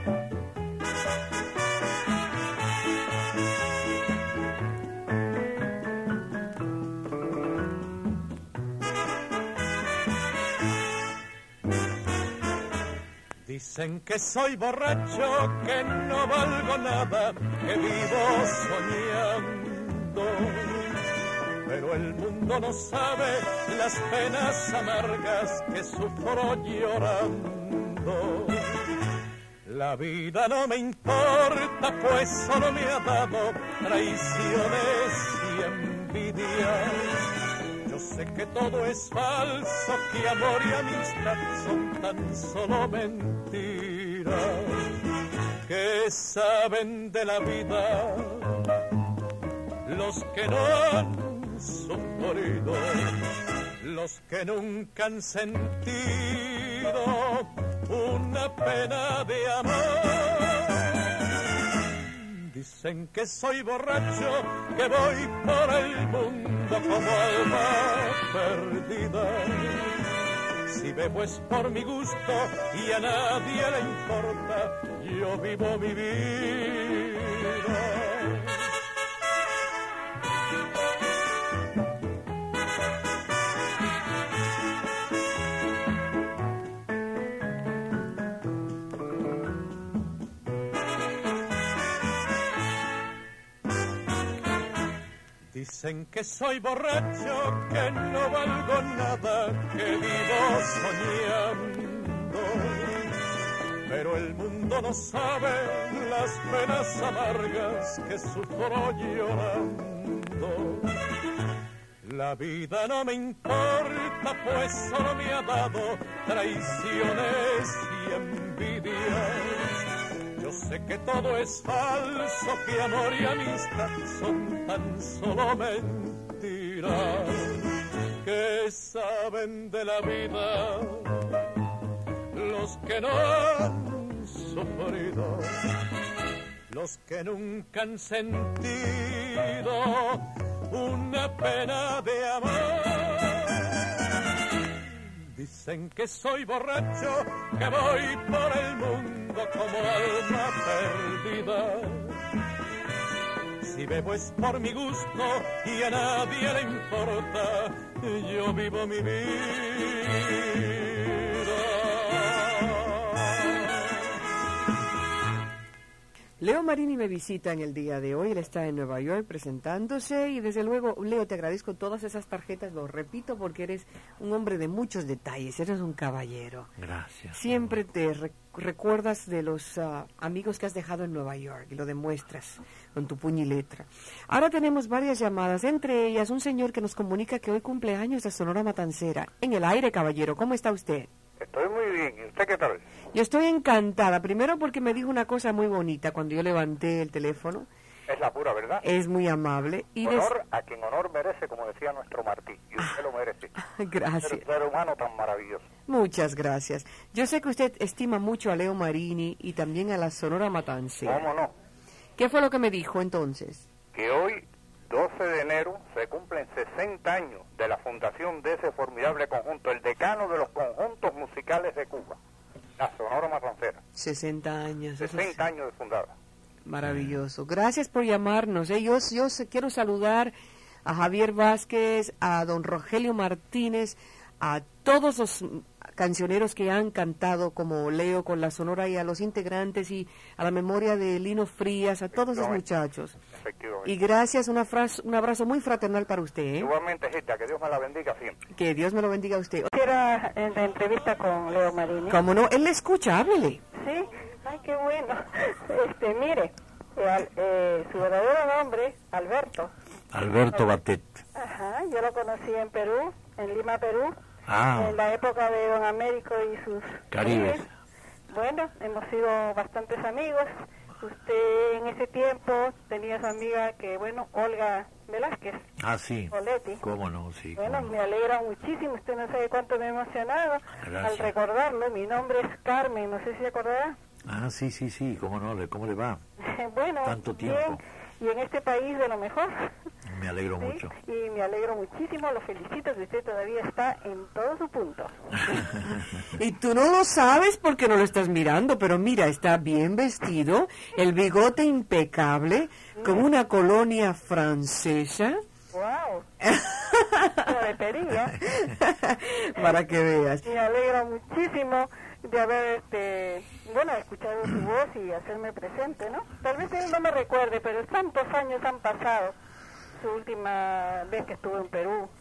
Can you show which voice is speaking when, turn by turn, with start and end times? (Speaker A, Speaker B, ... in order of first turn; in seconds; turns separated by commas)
Speaker A: 13.4-21.0, Speaker A: 21.6-29.0, Speaker A: 29.6-45.0, Speaker A: 45.6-48.8, Speaker A: 49.8-70.0, Speaker A: 70.7-78.7, Speaker A: 95.5-103.2, Speaker A: 103.8-111.2, Speaker A: 112.0-131.5, Speaker A: 132.3-135.6, Speaker A: 136.7-144.2, Speaker A: 145.2-152.2, Speaker A: 153.6-163.7, Speaker B: 166.4-176.7, Speaker C: 176.8-177.6, Speaker B: 177.3-191.1, Speaker D: 191.4-192.8, Speaker B: 193.1-197.7, Speaker D: 198.1-198.8, Speaker B: 198.8-200.2, Speaker D: 200.0-203.5, Speaker B: 203.6-204.4, Speaker D: 204.2-205.6, Speaker B: 205.9-211.3, Speaker D: 211.0-211.5, Speaker B: 212.2-213.7, Speaker D: 213.9-222.2, Speaker D: 222.8-223.8, Speaker B: 223.9-225.4, Speaker D: 225.0-226.1, Speaker B: 226.6-230.3, Speaker C: 226.9-227.2, Speaker B: 230.8-243.2, Speaker D: 242.1-242.6, Speaker D: 243.3-243.9, Speaker B: 243.8-246.7, Speaker D: 246.6-248.4, Speaker B: 248.5-249.7, Speaker E: 249.7-252.2, Speaker B: 252.1-253.6, Speaker E: 253.8-259.7, Speaker C: 260.1-261.2, Speaker E: 261.4-264.1, Speaker C: 264.4-265.0, Speaker E: 264.8-267.6, Speaker C: 267.1-267.7, Speaker E: 268.3-270.5, Speaker E: 271.0-275.6, Speaker C: 275.8-277.9, Speaker E: 276.3-276.8, Speaker E: 277.6-283.9, Speaker C: 280.8-281.3, Speaker C: 284.3-286.2, Speaker E: 286.4-289.7, Speaker C: 287.0-287.8, Speaker C: 290.1-290.9, Speaker E: 290.6-295.1, Speaker B: 296.4-305.4, Speaker E: 305.7-306.2, Speaker B: 306.4-307.4, Speaker E: 307.4-308.4, Speaker B: 308.6-310.4, Speaker E: 310.4-319.4, Speaker E: 319.9-322.1